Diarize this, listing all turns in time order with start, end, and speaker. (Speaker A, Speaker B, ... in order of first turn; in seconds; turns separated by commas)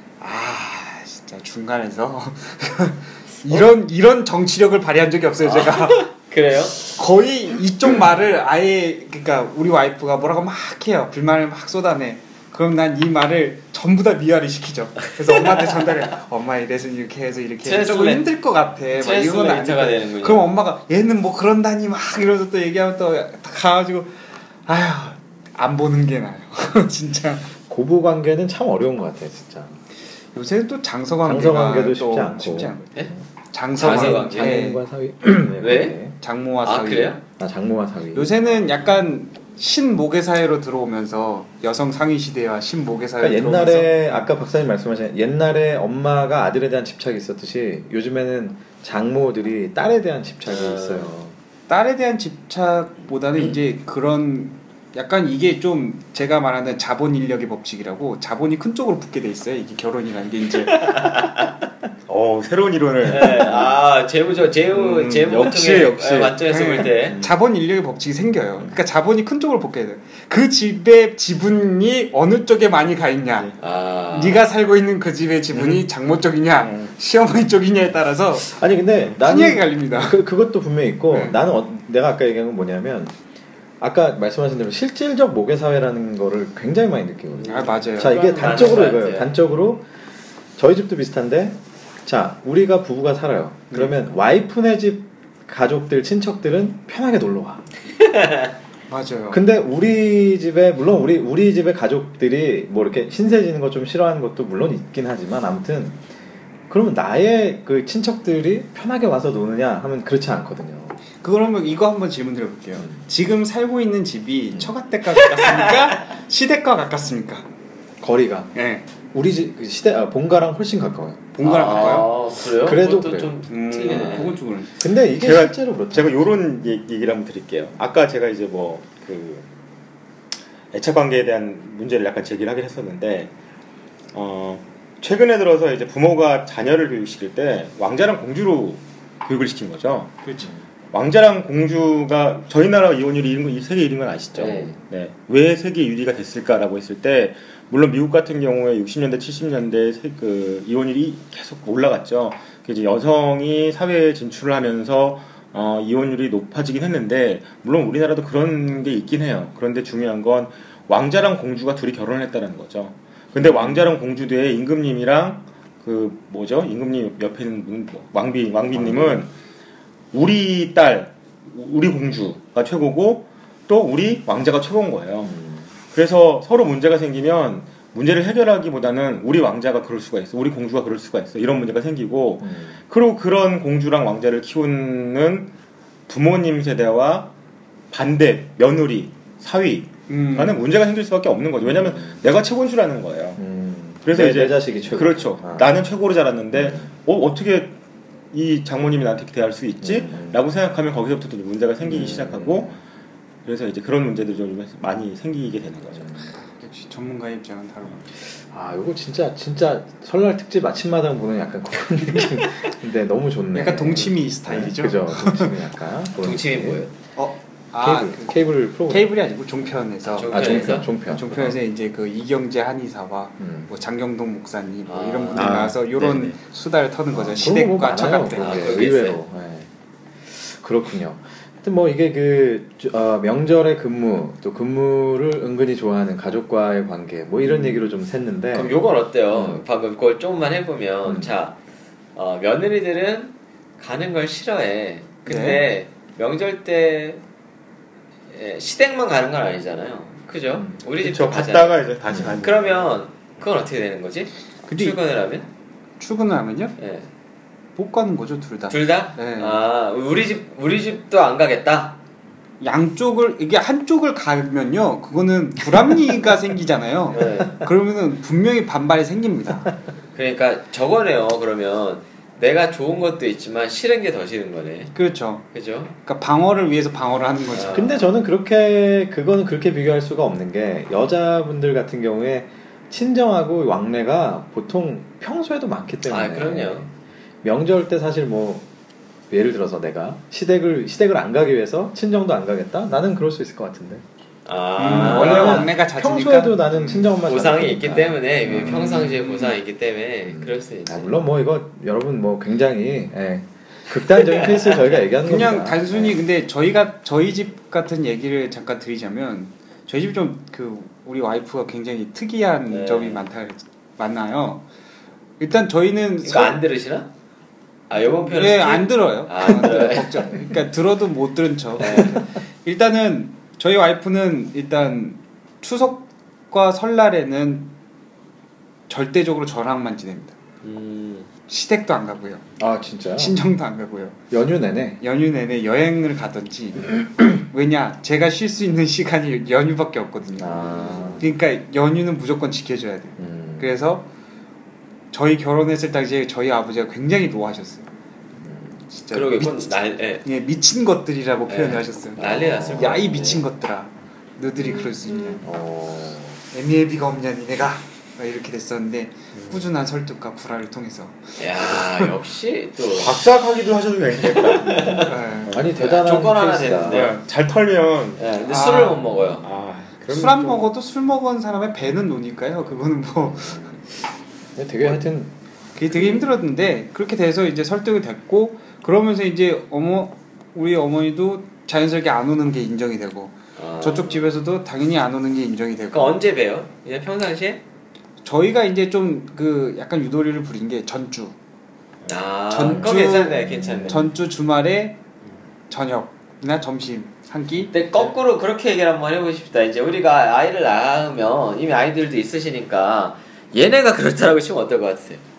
Speaker A: 0.2-6.1, Speaker B: 5.4-6.8, Speaker A: 6.8-27.5, Speaker B: 17.6-18.3, Speaker B: 18.9-20.5, Speaker C: 27.7-29.8, Speaker A: 30.3-32.9, Speaker C: 31.2-33.2, Speaker A: 33.5-34.8, Speaker B: 33.7-34.6, Speaker C: 33.8-36.1, Speaker B: 35.6-36.0, Speaker A: 36.2-37.2, Speaker B: 36.6-37.2, Speaker C: 37.4-38.4, Speaker A: 38.1-44.3, Speaker C: 43.2-51.3, Speaker B: 50.5-51.1, Speaker A: 51.7-61.1, Speaker B: 60.7-61.5, Speaker D: 62.1-63.8, Speaker B: 63.0-67.2, Speaker D: 64.7-67.3, Speaker A: 66.5-73.5, Speaker B: 73.6-74.4, Speaker A: 74.1-78.6, Speaker D: 75.5-75.8, Speaker D: 76.5-76.9, Speaker C: 78.5-83.1, Speaker A: 79.2-80.2, Speaker A: 81.1-81.4, Speaker C: 83.8-89.9, Speaker B: 87.4-89.3, Speaker A: 87.5-88.5, Speaker C: 90.6-97.6, Speaker B: 98.0-98.5, Speaker A: 98.9-99.4, Speaker C: 99.3-106.0, Speaker C: 106.7-111.0, Speaker A: 111.2-117.5, Speaker C: 118.0-118.5, Speaker A: 118.5-118.8, Speaker C: 119.1-123.3, Speaker A: 121.3-122.1, Speaker B: 121.4-124.4, Speaker A: 123.5-124.7, Speaker C: 124.8-126.3, Speaker D: 125.1-129.5, Speaker D: 130.7-133.3, Speaker D: 134.1-140.2, Speaker A: 140.2-140.5, Speaker D: 140.9-169.3, Speaker B: 144.4-144.7, Speaker C: 144.4-144.7, Speaker C: 163.4-163.9, Speaker C: 168.7-169.2, Speaker D: 170.1-175.3, Speaker C: 175.2-175.7, Speaker D: 175.9-185.5, Speaker C: 182.4-182.8, Speaker D: 186.1-187.3, Speaker D: 187.9-193.4, Speaker A: 190.1-190.6, Speaker C: 191.6-192.2, Speaker C: 193.4-195.8, Speaker D: 194.0-197.8, Speaker C: 196.5-196.9, Speaker D: 198.3-202.8, Speaker C: 199.8-200.4, Speaker C: 201.8-202.8, Speaker D: 203.4-206.2, Speaker C: 205.9-206.3, Speaker A: 206.6-208.1, Speaker C: 208.3-216.8, Speaker A: 213.5-215.5, Speaker B: 216.2-216.9, Speaker A: 217.2-218.4, Speaker C: 217.8-219.1, Speaker A: 218.9-228.8, Speaker B: 220.0-220.9, Speaker C: 220.2-221.6, Speaker C: 223.4-223.7, Speaker B: 224.8-225.7, Speaker D: 225.3-226.4, Speaker C: 227.1-229.7, Speaker B: 228.3-229.2, Speaker C: 230.2-238.8, Speaker A: 237.5-237.7, Speaker B: 238.5-241.6, Speaker C: 239.3-239.6, Speaker C: 241.0-241.3, Speaker B: 242.1-247.2, Speaker A: 245.2-245.7, Speaker B: 248.3-251.8, Speaker C: 250.5-250.8, Speaker D: 251.0-253.0, Speaker C: 252.1-252.4, Speaker B: 252.3-255.5, Speaker A: 254.7-255.0, Speaker A: 256.0-256.8, Speaker B: 256.8-257.1, Speaker A: 257.8-259.6, Speaker B: 258.7-262.0, Speaker A: 262.6-269.7, Speaker B: 267.1-267.6, Speaker B: 270.1-274.9, Speaker A: 274.9-275.5, Speaker B: 275.5-275.9, Speaker A: 276.0-277.9, Speaker B: 277.5-278.0, Speaker C: 277.7-286.9, Speaker B: 286.1-286.9, Speaker C: 287.4-288.7, Speaker C: 289.3-294.0, Speaker B: 294.4-295.7, Speaker A: 294.8-297.1, Speaker C: 294.8-299.4, Speaker B: 297.2-301.1, Speaker C: 300.3-306.2, Speaker B: 304.6-305.0, Speaker A: 305.1-314.6, Speaker B: 312.7-313.2, Speaker A: 315.4-316.6, Speaker B: 316.2-317.1, Speaker B: 317.9-320.4, Speaker A: 318.1-327.7, Speaker B: 321.8-322.2, Speaker A: 328.9-330.3, Speaker B: 330.6-331.3, Speaker A: 331.5-332.4, Speaker C: 332.6-333.4, Speaker A: 333.1-334.2, Speaker C: 334.3-335.0, Speaker A: 335.0-340.6, Speaker C: 340.4-341.3, Speaker B: 340.5-341.2, Speaker A: 341.2-344.1, Speaker C: 343.2-343.8, Speaker A: 345.1-347.9, Speaker C: 348.4-348.8, Speaker A: 348.9-355.4, Speaker B: 349.1-350.2, Speaker B: 351.5-353.4, Speaker C: 355.4-356.4, Speaker A: 356.5-362.1, Speaker D: 359.3-359.7, Speaker B: 361.4-363.2, Speaker D: 362.9-365.7, Speaker B: 364.3-367.2, Speaker C: 364.6-367.1, Speaker A: 365.1-365.5, Speaker D: 366.8-368.2, Speaker B: 368.2-369.5, Speaker A: 368.4-369.4, Speaker D: 369.4-370.7, Speaker A: 370.1-373.8, Speaker C: 373.2-373.8, Speaker C: 374.6-375.3, Speaker A: 375.7-386.2, Speaker C: 375.9-376.2, Speaker B: 383.6-384.3, Speaker B: 385.9-387.6, Speaker A: 388.2-391.4, Speaker B: 392.1-394.1, Speaker A: 392.5-395.0, Speaker C: 392.7-394.1, Speaker A: 395.7-397.8, Speaker B: 397.7-405.2